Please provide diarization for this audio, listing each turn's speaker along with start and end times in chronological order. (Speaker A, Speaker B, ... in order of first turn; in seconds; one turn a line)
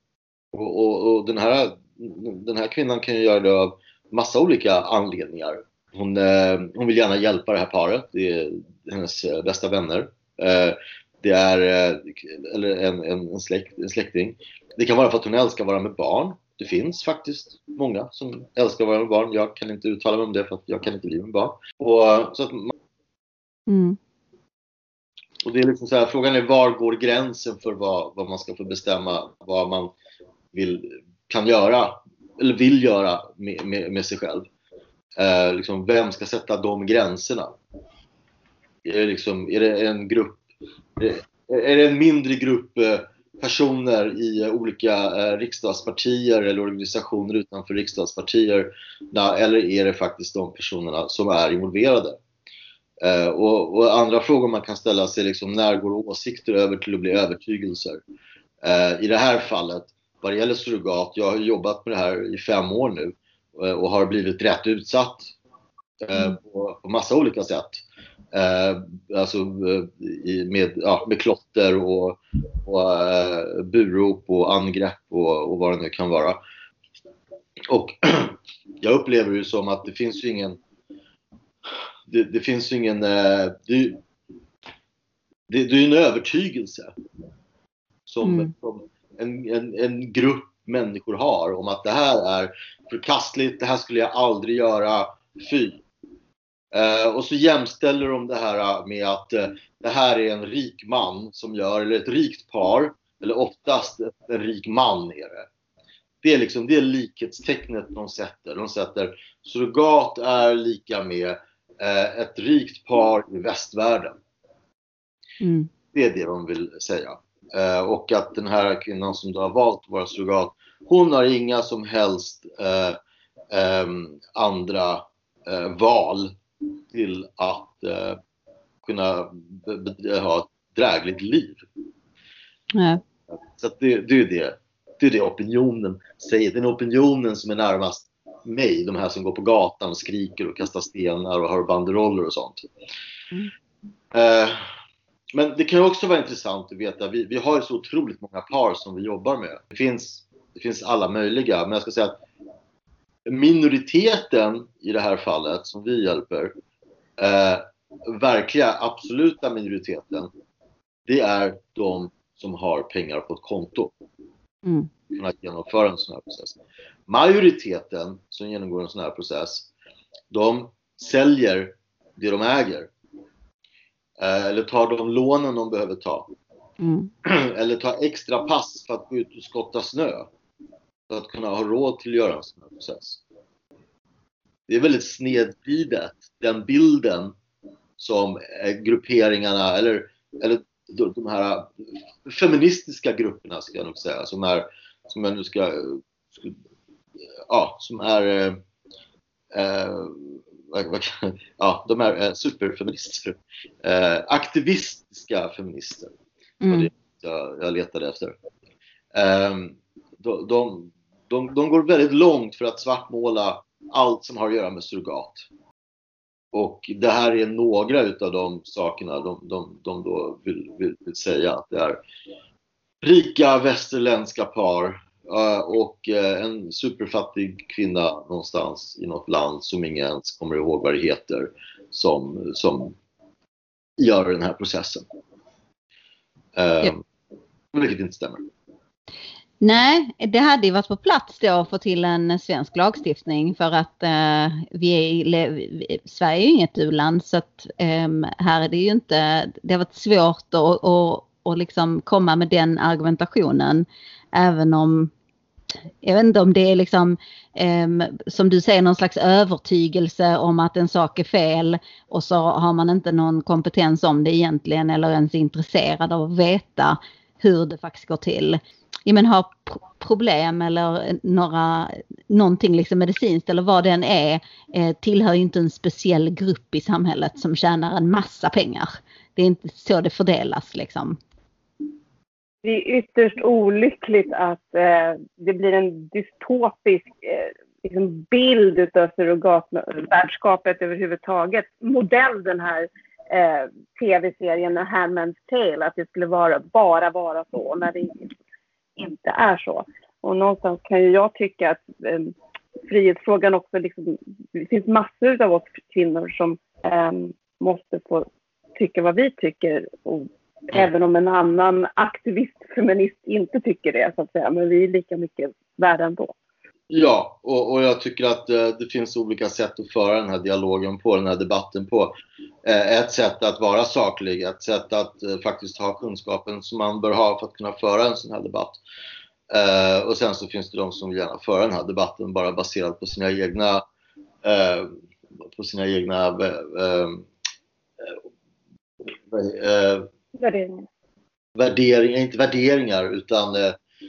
Speaker A: 0.5-22.7
Speaker B: 23.7-24.0
Speaker A: 25.4-29.9
Speaker A: 30.5-34.5
Speaker A: 35.2-37.5
Speaker A: 38.8-40.4
Speaker A: 41.0-52.2
Speaker A: 53.0-58.0
Speaker A: 58.6-65.3
Speaker A: 66.0-76.4
Speaker A: 77.7-80.6
Speaker A: 82.1-84.0
Speaker A: 85.5-86.9
Speaker A: 88.1-95.8
Speaker B: 88.2-88.5
Speaker A: 96.7-105.5
Speaker A: 106.2-114.2
Speaker B: 115.4-115.7
Speaker A: 115.9-123.0
Speaker A: 123.5-126.3
Speaker A: 126.9-128.2
Speaker A: 128.8-131.6
Speaker B: 132.7-133.0
Speaker A: 133.5-142.6
Speaker A: 144.1-144.6
Speaker A: 145.3-152.2
Speaker A: 153.3-156.5
Speaker A: 157.2-160.3
Speaker A: 161.1-163.9
Speaker B: 164.6-164.9
Speaker A: 165.1-169.7
Speaker A: 170.3-172.9
Speaker A: 174.2-176.3
Speaker B: 176.8-177.1
Speaker A: 177.2-180.3
Speaker A: 181.1-183.2
Speaker A: 184.7-187.3
Speaker A: 188.0-191.7
Speaker A: 192.2-196.6
Speaker A: 197.5-198.6
Speaker A: 199.5-206.1
Speaker B: 206.6-206.9
Speaker A: 206.7-208.3
Speaker A: 209.1-215.5
Speaker A: 216.5-222.0
Speaker A: 223.0-232.9
Speaker A: 234.0-235.0
Speaker A: 236.6-237.0
Speaker A: 237.7-238.4
Speaker B: 239.6-255.1
Speaker B: 256.0-281.2
Speaker C: 282.6-298.2
Speaker C: 299.0-302.3
Speaker C: 302.9-316.3
Speaker A: 316.9-322.1
Speaker A: 322.6-328.8
Speaker A: 329.5-333.8
Speaker A: 334.4-334.9
Speaker A: 335.5-337.3
Speaker A: 339.3-340.1
Speaker C: 340.4-340.9
Speaker A: 341.6-343.8